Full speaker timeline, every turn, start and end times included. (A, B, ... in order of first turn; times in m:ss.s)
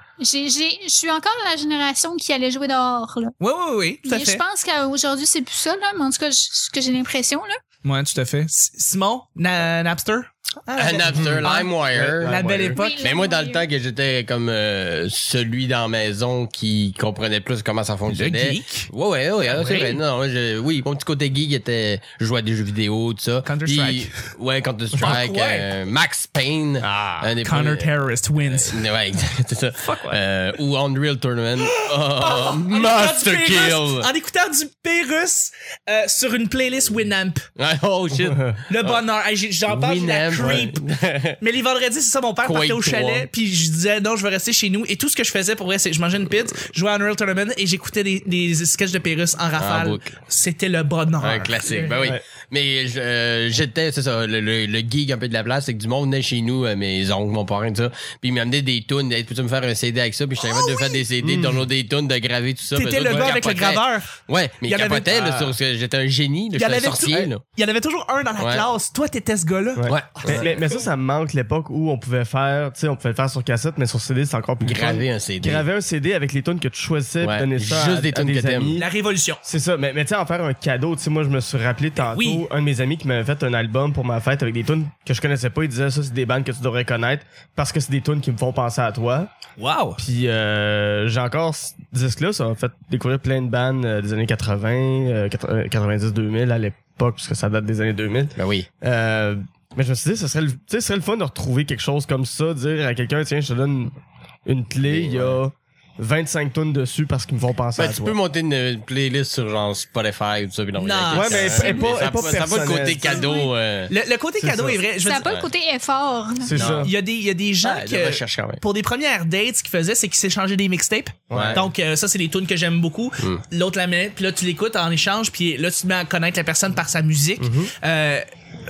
0:00.2-0:03.3 A
0:03.4-0:04.4 B
0:04.0-0:07.6 A
0:07.8-0:13.0 B
0:10.8-0:34.1 C
0:11.1-0:12.8 D
0:12.7-0:13.7 A
0:18.1-0:18.9 B
0:19.4-0:20.0 B
0:23.4-0:24.1 B
0:24.9-0:25.7 B
0:26.8-0:27.3 D
0:27.4-0:28.8 B
0:29.7-0:30.2 B
0:31.6-0:37.4 B
0:37.6-0:39.0 C
0:38.2-0:38.5 D
0:38.7-0:40.9 B
0:39.7-0:41.4 C
0:41.4-0:52.0 B
0:42.4-0:43.3 C
0:49.6-0:50.1 C
0:51.2-1:07.4 C
0:52.0-0:52.2 D
1:00.4-1:01.0 B
1:01.2-1:01.6 D
1:02.7-1:05.4 B
1:05.2-1:05.5 D
1:06.5-1:10.8 B
1:08.4-1:08.6 C
1:09.8-1:18.9 D
1:09.9-1:10.5 C
1:14.6-1:15.6 C
1:17.2-1:18.8 C
1:18.7-1:19.4 B
1:19.4-1:29.3 D
1:22.0-1:22.4 B
1:29.6-1:30.0 B
1:30.0-1:43.9 D
1:38.4-1:38.7 C
1:44.4-1:48.2 D
1:44.8-1:45.4 C
1:47.8-1:53.9 C
1:50.8-1:52.9 B
1:51.1-1:53.3 D
1:52.9-1:53.5 A
1:53.9-1:55.3 B
1:54.4-1:54.8 D
1:54.8-1:56.6 A
1:55.2-1:55.5 C
1:56.4-1:56.9 D
1:56.5-1:56.9 C
1:56.6-2:08.2 B
1:57.6-1:58.6 C
2:01.3-2:01.6 D
2:01.3-2:01.6 C
2:07.4-2:07.7 D